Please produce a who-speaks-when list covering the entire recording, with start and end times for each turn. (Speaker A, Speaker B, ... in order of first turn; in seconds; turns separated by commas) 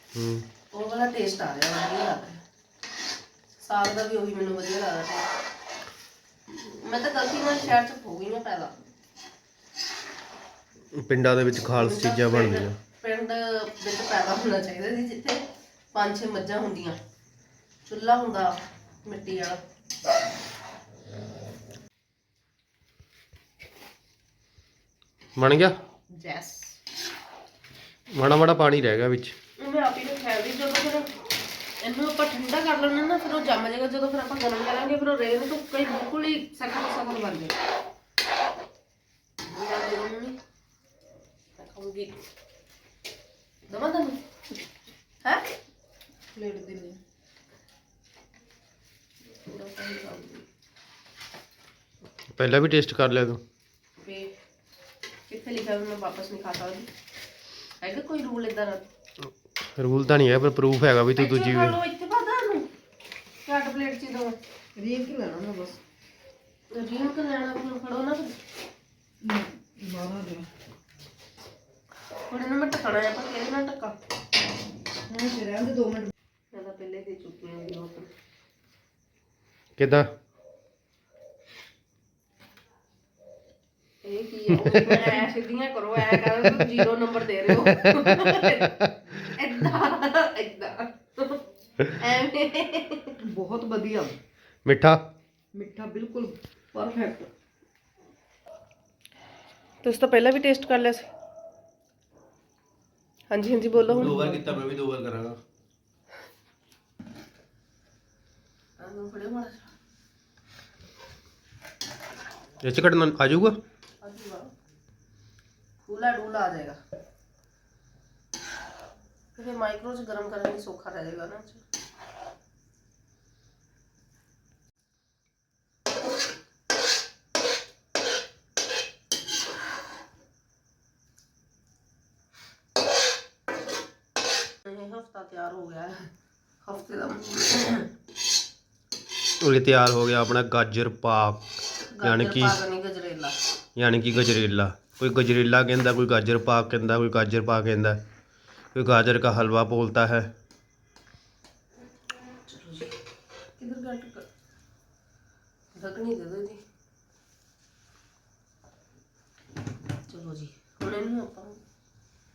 Speaker A: 0.1-0.5, Speaker B: 0.7-2.4, Speaker B: 3.6-5.3, Speaker B: 6.5-8.7, Speaker A: 11.0-12.8, Speaker B: 11.8-17.0, Speaker B: 17.9-19.6, Speaker A: 25.4-25.8, Speaker B: 26.1-26.8, Speaker A: 28.1-29.3, Speaker B: 29.6-31.1, Speaker B: 31.8-37.5, Speaker B: 39.5-40.4, Speaker B: 41.6-42.1, Speaker B: 43.7-44.2, Speaker C: 46.4-47.0, Speaker B: 49.3-50.4, Speaker A: 52.4-53.4, Speaker B: 54.0-54.3, Speaker B: 55.3-56.9, Speaker B: 57.8-58.8, Speaker A: 59.8-61.8, Speaker B: 61.2-62.7, Speaker B: 63.5-64.4, Speaker C: 64.8-65.8, Speaker B: 66.7-68.3, Speaker C: 69.2-70.5, Speaker B: 72.3-74.0, Speaker C: 75.1-76.1, Speaker B: 76.5-78.1, Speaker A: 79.8-80.1, Speaker B: 84.0-93.2, Speaker A: 87.8-88.7, Speaker C: 93.2-94.1, Speaker A: 94.7-95.0, Speaker C: 95.5-97.3, Speaker B: 99.8-101.1, Speaker B: 103.3-104.2, Speaker C: 103.8-104.6, Speaker A: 103.9-105.4, Speaker B: 108.8-109.7, Speaker A: 112.6-113.6, Speaker B: 114.0-114.5, Speaker B: 115.8-116.8, Speaker B: 119.4-121.6, Speaker B: 134.7-136.1, Speaker B: 136.7-137.9, Speaker A: 139.4-141.4, Speaker B: 141.9-143.4, Speaker A: 142.0-142.6, Speaker A: 143.8-148.0, Speaker A: 148.7-150.3, Speaker B: 152.4-152.9, Speaker B: 153.6-154.2, Speaker B: 155.8-156.6, Speaker B: 160.1-161.6